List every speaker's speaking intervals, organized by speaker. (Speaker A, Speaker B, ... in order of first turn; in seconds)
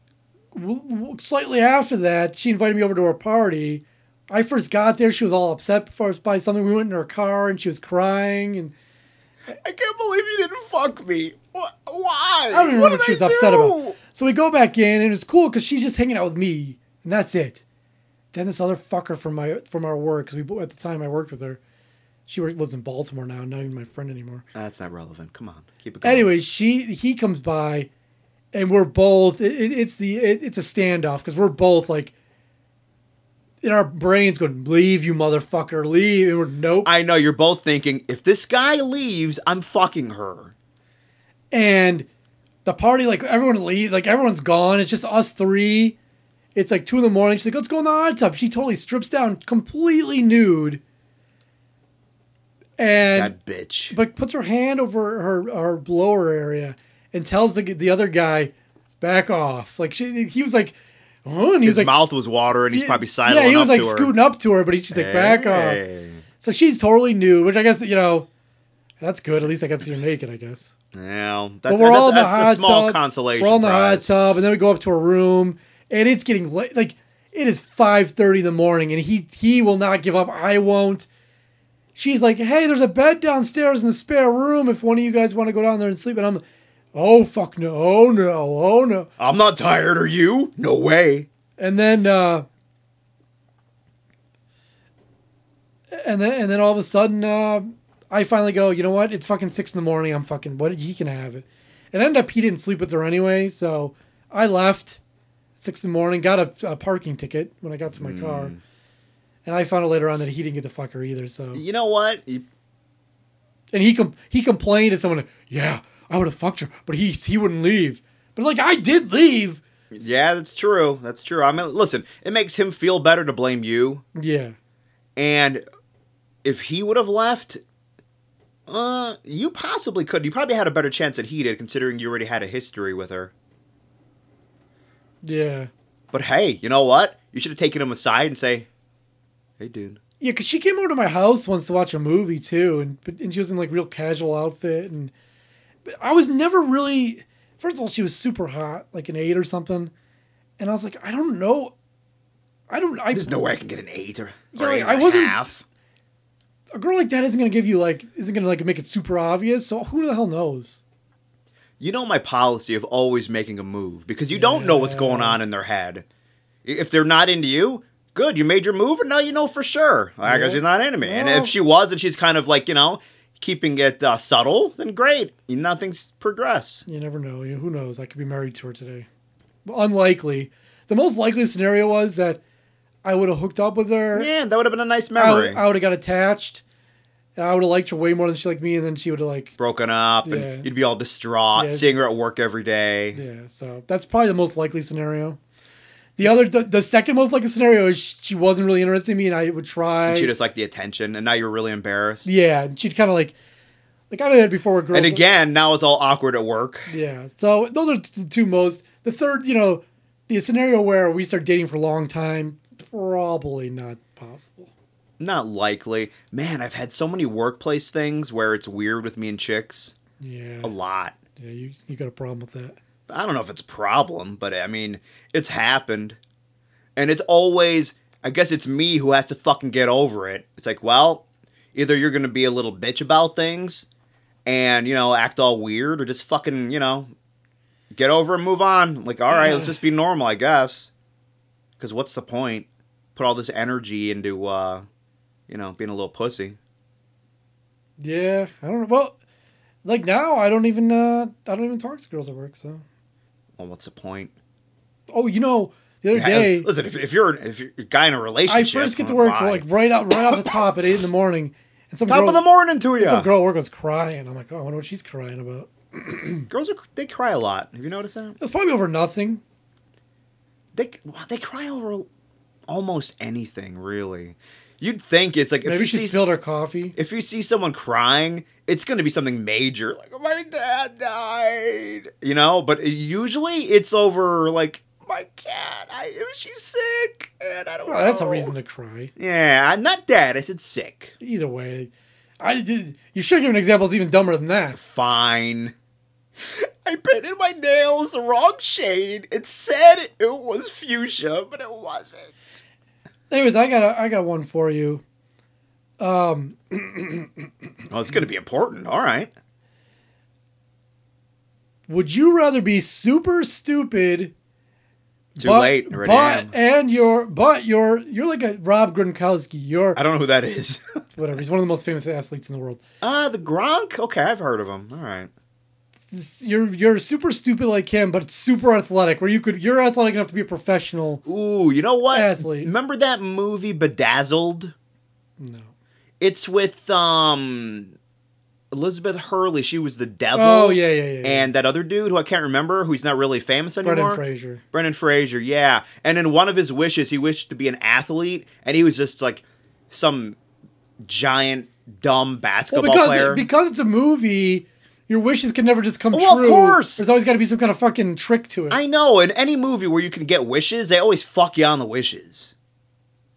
Speaker A: 0.5-8.7, 12.5-17.6, 18.3-21.6, 22.3-24.4, 26.0-27.9, 28.5-32.1, 33.6-36.9, 41.5-42.1, 42.6-46.0, 46.5-50.8, 52.8-53.3, 53.9-61.9, 62.7-65.8, 66.4-68.3, 69.0-70.7, 71.7-81.1, 81.9-86.4, 86.9-89.1, 91.6-92.5, 95.9-105.0, 105.6-108.5, 109.5-111.6, 113.7-119.6, 124.1-124.5, 135.2-135.7, 140.2-145.1, 145.8-149.9, 150.6-151.7, 152.7-153.3, 154.5-155.4, 156.7-160.8, 164.3-165.4, 170.2-171.5, 176.9-179.1, 179.7-182.4, 183.0-184.3, 185.2-186.6, 187.4-189.5, 190.2-190.7, 191.5-191.9, 193.1-195.4, 196.2-200.3, 202.2-203.3, 204.1-205.2, 206.9-214.7, 220.2-220.7, 221.4-222.8, 239.3-239.8, 248.0-249.2, 249.8-252.8, 255.1-256.7, 258.5-262.4, 263.0-266.5, 268.4-269.4, 275.6-276.9, 287.9-289.1, 291.2-294.8, 303.3-305.0, 306.0-307.5, 311.9-314.3, 315.4-320.0, 321.1-322.8, 326.1-331.2, 332.1-332.7, 335.4-335.7, 340.3-341.5, 343.8-344.6, 352.7-358.8
Speaker B: 9.5-14.0, 24.5-26.3, 36.8-40.5, 53.0-54.0, 61.6-64.1, 64.9-66.2, 70.9-74.1, 89.2-91.3, 107.9-108.6, 111.5-112.4, 119.9-124.0, 125.2-125.6, 126.4-127.6, 128.7-133.3, 136.1-138.7, 139.6-140.0, 153.1-155.6, 161.8-166.0, 166.6-176.8, 184.1-185.6, 189.6-193.2, 200.1-202.3, 204.9-206.9, 215.2-219.9, 220.6-221.2, 223.1-226.2, 226.9-233.9, 234.4-237.1, 237.9-240.9, 241.8-244.8, 245.5-246.6, 253.6-254.3, 256.1-259.7, 260.3-260.6, 262.1-263.3, 266.5-268.4, 270.7-272.1, 272.7-276.2, 276.9-288.5, 289.2-291.1, 294.7-295.7, 296.4-302.6, 307.9-309.3, 315.4-316.5, 319.9-320.9, 323.0-325.3, 331.2-334.7, 336.2-337.9, 338.7-350.4, 351.0-353.5, 356.1-357.1, 358.7-362.5